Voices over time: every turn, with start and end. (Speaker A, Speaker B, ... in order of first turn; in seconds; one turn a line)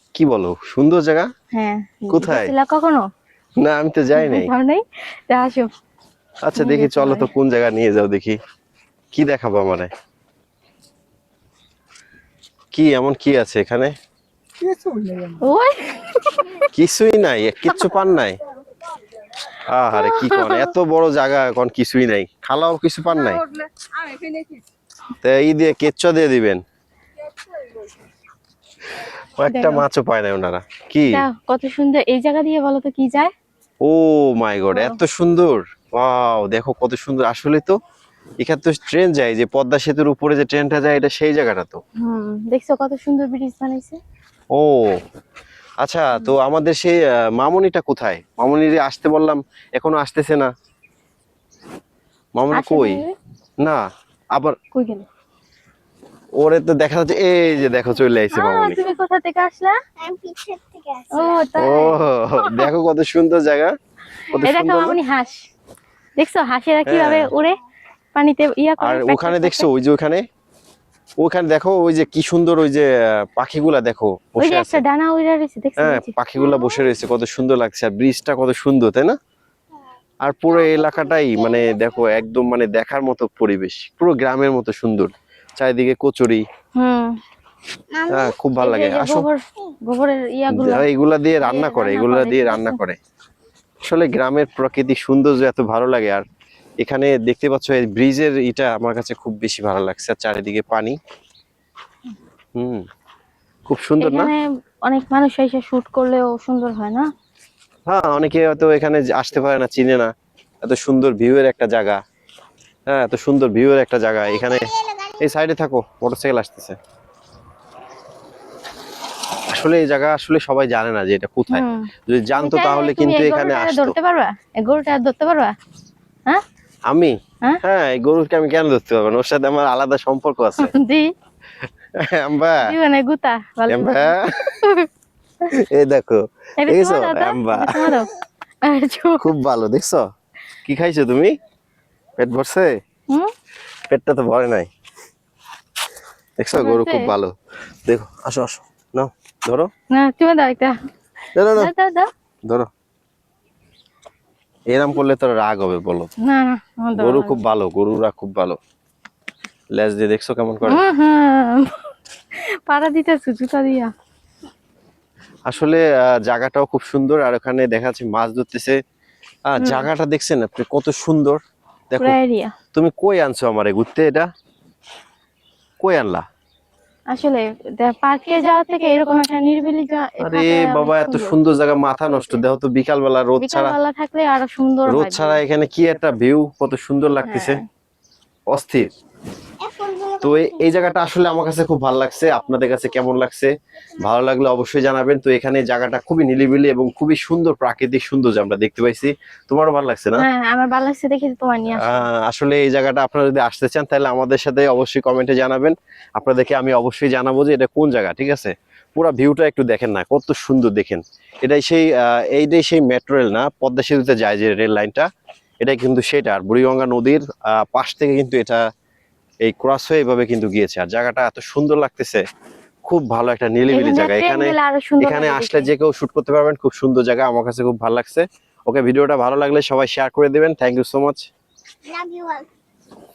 Speaker A: 0.1-1.3
Speaker B: 1.5-3.0
Speaker A: 2.1-2.5
Speaker A: 3.6-4.5
Speaker B: 4.2-5.7
Speaker A: 6.4-8.4
Speaker B: 6.6-7.3
Speaker A: 9.1-9.9
Speaker A: 12.7-13.9
Speaker B: 15.3-16.6
Speaker A: 16.7-18.4
Speaker A: 19.6-23.4
Speaker B: 19.9-20.7
Speaker A: 25.2-26.6
Speaker A: 29.4-31.2
Speaker B: 29.4-29.8
Speaker B: 31.1-33.3
Speaker A: 33.8-37.7
Speaker B: 34.7-35.0
Speaker A: 38.4-41.8
Speaker B: 42.0-44.0
Speaker A: 44.5-45.0
Speaker A: 45.8-50.5
Speaker A: 52.4-53.0
Speaker B: 52.5-53.1
Speaker B: 54.7-55.0
Speaker A: 56.4-58.8
Speaker B: 58.3-59.8
Speaker C: 60.0-61.4
Speaker B: 61.1-62.7
Speaker A: 61.5-63.7
Speaker A: 64.3-65.0
Speaker B: 64.4-65.5
Speaker B: 66.2-67.6
Speaker A: 66.8-67.3
Speaker B: 68.1-69.7
Speaker A: 68.8-70.2
Speaker A: 71.2-74.8
Speaker B: 74.4-76.1
Speaker A: 75.8-79.2
Speaker A: 80.2-86.4
Speaker B: 86.8-87.2
Speaker C: 87.9-88.3
Speaker A: 88.1-89.3
Speaker B: 88.6-90.8
Speaker A: 90.5-93.0
Speaker B: 91.4-92.8
Speaker A: 93.9-96.2
Speaker A: 96.8-101.0
Speaker A: 102.6-102.8
Speaker A: 103.7-104.3
Speaker B: 104.0-107.1
Speaker A: 107.9-110.1
Speaker A: 110.6-112.0
Speaker A: 112.9-116.8
Speaker A: 119.5-124.0
Speaker B: 121.5-125.5
Speaker A: 126.9-130.7
Speaker B: 130.6-131.1
Speaker A: 132.0-132.7
Speaker B: 132.6-134.9
Speaker A: 133.7-134.5
Speaker A: 135.5-138.0
Speaker B: 136.6-138.1
Speaker B: 138.6-139.2
Speaker A: 139.2-140.0
Speaker A: 140.6-141.3
Speaker A: 142.2-142.7
Speaker A: 143.9-144.7
Speaker A: 146.4-147.3
Speaker B: 146.6-147.1
Speaker A: 147.8-149.7
Speaker B: 149.9-150.8
Speaker A: 151.3-151.7
Speaker B: 151.6-152.1
Speaker A: 154.7-156.1
Speaker B: 156.2-157.4
Speaker A: 157.0-158.6
Speaker A: 159.7-160.8
Speaker B: 160.7-161.8
Speaker B: 162.7-163.9
Speaker A: 165.5-168.8
Speaker A: 169.5-172.2
Speaker B: 169.6-169.9
Speaker B: 172.0-172.5
Speaker A: 172.7-174.3
Speaker A: 175.8-176.2
Speaker B: 177.1-181.3
Speaker A: 180.2-183.8
Speaker B: 183.4-185.4
Speaker A: 184.9-187.6
Speaker B: 187.2-187.6
Speaker A: 188.5-188.9
Speaker C: 189.6-190.2
Speaker A: 190.2-200.2
Speaker B: 200.2-202.1
Speaker A: 201.7-215.1
Speaker A: 215.6-218.6
Speaker A: 219.4-222.2
Speaker A: 222.9-231.3
Speaker B: 223.7-225.7
Speaker C: 231.9-232.5